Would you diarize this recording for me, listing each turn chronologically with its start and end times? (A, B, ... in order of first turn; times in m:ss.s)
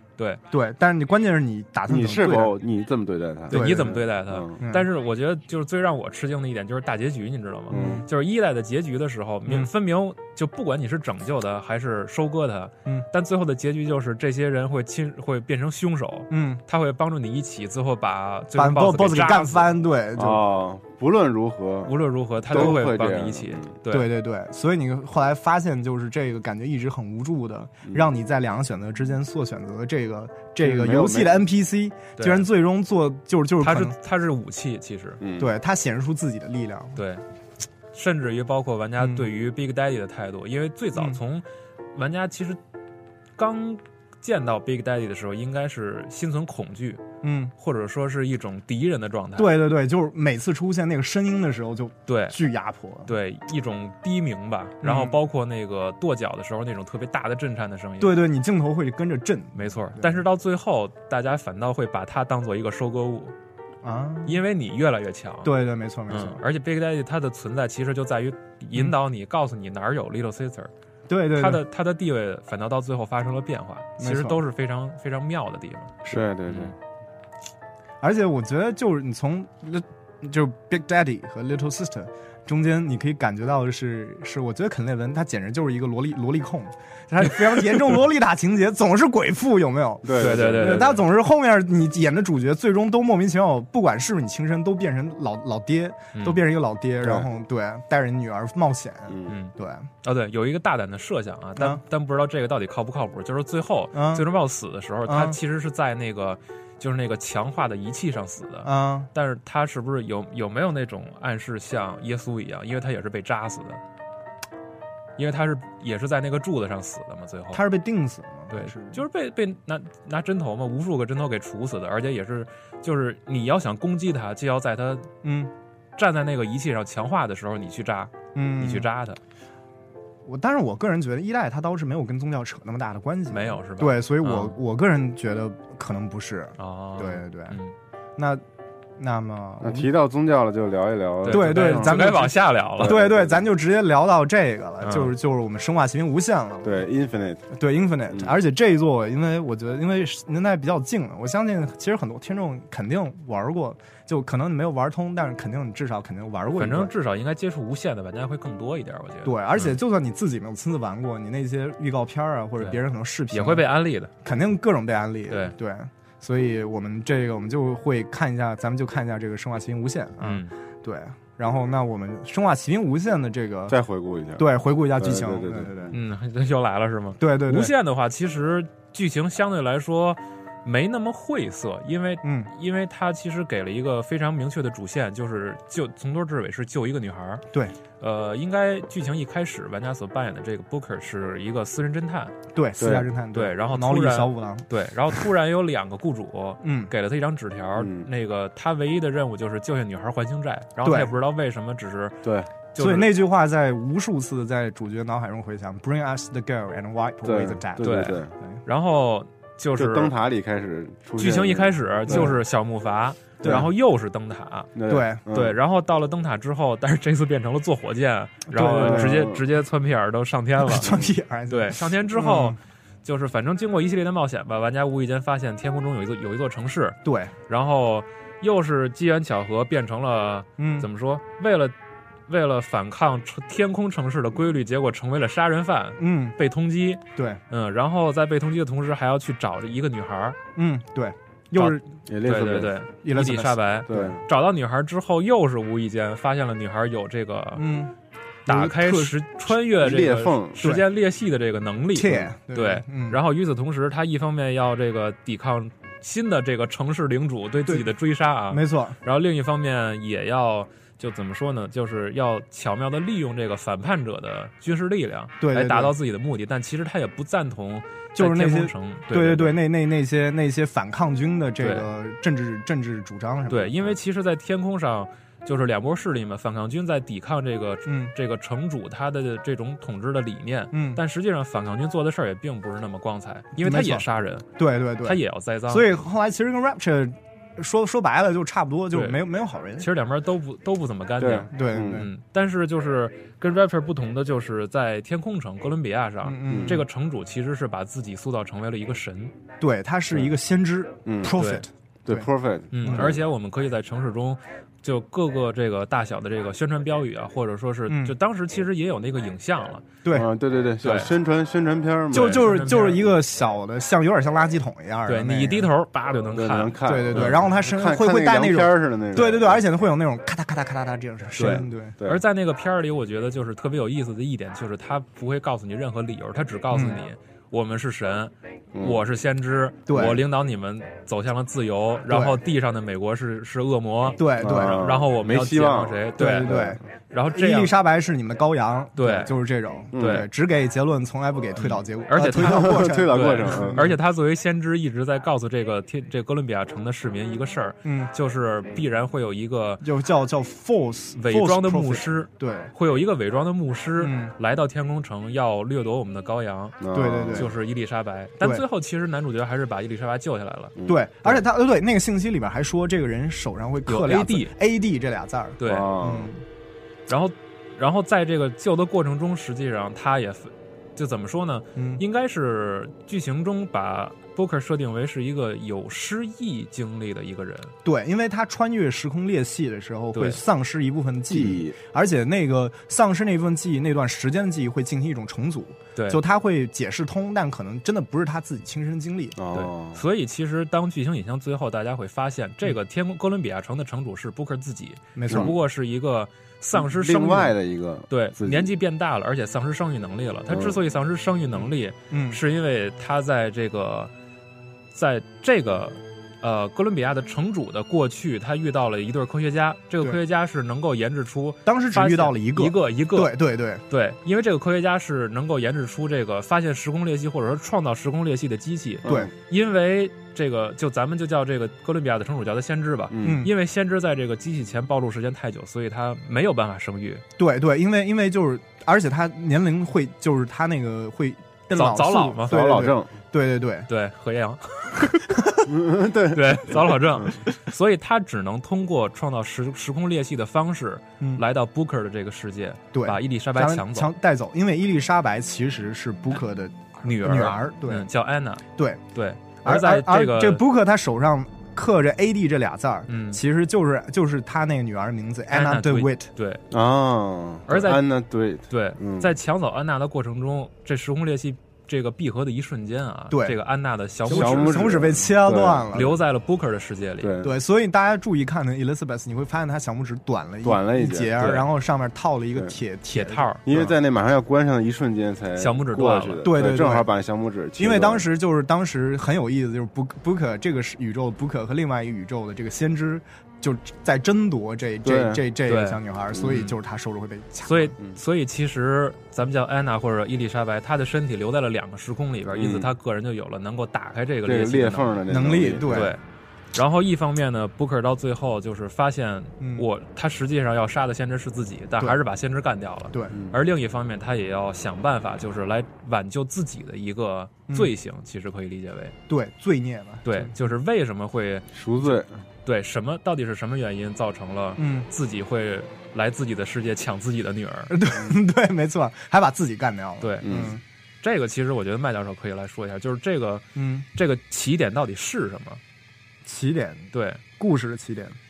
0:00.5-0:02.5 A
0:01.9-0:04.6 B
0:03.5-0:19.7 C
0:03.5-0:04.0 A
0:04.6-0:04.9 A
0:07.7-0:08.1 A
0:07.7-0:08.0 B
0:16.3-0:16.6 A
0:18.5-0:20.4 A
0:20.2-0:21.9 B
0:21.9-0:24.1 C
0:22.5-0:23.7 B
0:22.6-0:22.8 A
0:23.9-0:34.0 A
0:30.6-0:31.4 B
0:32.2-0:32.5 C
0:33.6-0:35.2 C
0:35.2-0:35.5 B
0:35.4-0:37.0 A
0:37.0-0:37.2 C
0:37.9-0:42.6 C
0:39.0-0:39.3 A
0:43.4-0:47.0 C
0:47.2-0:47.5 A
0:47.6-0:49.6 C
0:49.4-0:53.1 A
0:52.1-0:52.4 C
0:53.1-0:58.2 C
0:54.8-0:55.2 A
0:58.0-1:00.2 A
0:59.6-1:03.4 C
1:03.8-1:04.4 A
1:04.2-1:05.6 C
1:05.4-1:06.4 A
1:06.1-1:10.7 C
1:11.1-1:11.6 A
1:11.3-1:16.7 C
1:14.0-1:14.4 A
1:16.1-1:16.7 B
1:18.0-1:39.9 A
1:30.0-1:31.0 B
1:30.2-1:31.0 C
1:36.2-1:36.4 C
1:39.1-1:39.3 B
1:39.3-1:53.8 C
1:41.6-1:41.8 A
1:43.9-1:44.3 A
1:45.1-1:45.4 A
1:48.6-1:49.1 A
1:55.2-1:57.6 C
1:57.5-1:59.0 A
1:58.5-2:05.1 C
2:05.2-2:05.5 A
2:06.0-2:09.2 C
2:08.4-2:08.9 A
2:10.2-2:17.6 A
2:13.3-2:14.6 C
2:16.6-2:17.8 C
2:18.2-2:18.4 A
2:19.0-2:19.9 A
2:19.6-2:23.5 B
2:21.2-2:23.0 C
2:21.3-2:26.8 A
2:24.8-2:25.1 C
2:26.6-2:27.5 B
2:27.5-2:36.9 A
2:36.5-2:39.8 C
2:39.2-2:43.7 A
2:43.3-2:44.1 C
2:44.2-2:53.8 A
2:45.3-2:45.5 C
2:50.2-2:50.5 C
2:53.7-2:55.9 B
2:54.4-2:55.9 A
2:55.9-3:07.4 C
2:57.2-2:57.7 A
3:02.2-3:02.5 A
3:08.0-3:12.4 C
3:12.5-3:14.6 A
3:12.8-3:13.1 B
3:13.3-3:22.2 C
3:16.6-3:16.9 A
3:17.8-3:18.1 B
3:20.8-3:21.1 A
3:22.2-3:22.5 B
3:22.7-3:23.2 C
3:22.8-3:28.6 A
3:27.2-3:28.3 B
3:27.8-3:30.1 C
3:29.8-3:32.3 B
3:31.2-3:34.7 C
3:32.1-3:32.4 A
3:33.4-3:33.7 A
3:34.8-3:35.5 B
3:34.9-3:35.2 A
3:35.3-3:40.9 C
3:38.5-3:39.2 A
3:38.6-3:39.4 B
3:40.6-3:42.6 A
3:40.8-3:41.1 B
3:41.5-3:51.8 C
3:47.0-3:47.3 A
3:50.6-3:50.9 A
3:52.3-4:00.4 C
3:56.0-3:56.4 A
4:00.6-4:01.8 A
4:01.6-4:07.7 C
4:02.1-4:02.8 B
4:03.0-4:04.1 A
4:03.9-4:04.2 B
4:07.6-4:07.9 A
4:08.5-4:09.4 A
4:08.5-4:29.6 C
4:09.8-4:10.6 B
4:10.6-4:10.8 A
4:11.9-4:13.2 A
4:18.5-4:19.0 A
4:25.4-4:25.9 A
4:28.1-4:33.9 A
4:31.6-4:31.9 C
4:33.5-4:44.5 C
4:37.8-4:38.1 A
4:40.7-4:41.0 A
4:43.6-4:44.0 A
4:44.6-4:49.9 A
4:45.0-4:46.0 C
4:48.9-4:49.2 C
4:49.8-4:59.4 C
4:51.2-4:52.0 B
4:51.5-4:52.1 A
4:56.2-4:56.8 A
4:56.5-4:56.8 B
4:59.6-5:02.3 A
5:01.1-5:01.3 B
5:01.4-5:01.6 C
5:02.1-5:03.2 B
5:02.7-5:09.9 C
5:07.9-5:08.2 A
5:10.1-5:12.5 B
5:10.8-5:11.1 C
5:12.1-5:13.1 C
5:12.1-5:15.7 A
5:15.1-5:17.4 C
5:16.3-5:19.6 B
5:16.8-5:21.9 A
5:21.4-5:37.8 C
5:26.7-5:27.0 A
5:28.7-5:29.0 B
5:29.9-5:30.2 A
5:32.1-5:32.4 A
5:34.1-5:34.9 A
5:34.4-5:36.8 B
5:36.2-5:36.8 A
5:37.3-5:44.0 A
5:39.0-5:39.3 C
5:39.9-5:40.2 B
5:40.0-5:40.3 C
5:41.6-5:49.8 C
5:42.3-5:43.8 B
5:47.8-5:48.1 A
5:49.8-5:52.7 A
5:51.2-5:56.8 C
5:54.0-5:54.3 A
5:56.8-5:57.5 B
5:56.9-5:57.5 A
5:57.3-6:00.8 C
6:00.8-6:01.4 B
6:00.9-6:06.4 A
6:03.9-6:04.5 C
6:05.6-6:05.9 C
6:05.6-6:06.3 B
6:07.1-6:17.7 C
6:11.8-6:12.0 A
6:17.8-6:29.4 A
6:20.1-6:20.4 C
6:21.3-6:21.8 B
6:26.0-6:26.2 C
6:29.4-6:30.0 B
6:29.5-6:37.6 C
6:35.2-6:35.6 A
6:35.3-6:35.5 B
6:36.8-6:38.7 B
6:38.1-6:44.1 C
6:40.5-6:40.8 B
6:42.1-6:42.4 A
6:44.9-6:53.4 C
6:51.6-6:53.8 A
6:53.9-7:07.2 C
7:03.1-7:03.4 B
7:03.2-7:03.5 A
7:07.4-7:13.9 A
7:11.7-7:12.5 C
7:12.5-7:13.1 B
7:13.9-7:15.3 C
7:15.3-7:15.6 A
7:15.7-7:17.0 B
7:16.3-7:24.1 C
7:22.9-7:28.1 A
7:27.0-7:30.6 C
7:28.8-7:29.0 A
7:29.6-7:36.3 A
7:33.1-7:33.4 C
7:35.5-7:36.6 C
7:36.7-7:39.3 B
7:37.7-7:38.0 C
7:38.7-7:45.0 C
7:43.3-7:43.6 A
7:44.2-7:46.1 A
7:44.3-7:45.9 B
7:45.9-7:47.4 C
7:47.2-7:47.5 B
7:47.4-7:53.9 A
7:50.6-7:51.6 B
7:53.1-7:53.6 C
7:53.6-7:58.2 B
7:55.6-7:56.4 C
7:56.4-7:57.1 A
7:57.8-8:07.9 A
8:05.0-8:05.4 B
8:05.6-8:06.8 C
8:07.6-8:15.2 C
8:12.5-8:12.9 B
8:14.5-8:16.1 B
8:15.3-8:16.1 A
8:15.9-8:16.2 C
8:16.7-8:29.2 C
8:19.6-8:19.9 A
8:29.3-8:30.5 A
8:30.2-8:38.0 C
8:31.7-8:32.4 B
8:34.8-8:35.1 A
8:37.9-8:40.8 A
8:40.2-8:40.7 C
8:40.4-8:40.8 B
8:41.2-8:45.8 C
8:43.8-8:44.1 A
8:46.4-8:48.4 A
8:47.1-8:47.4 C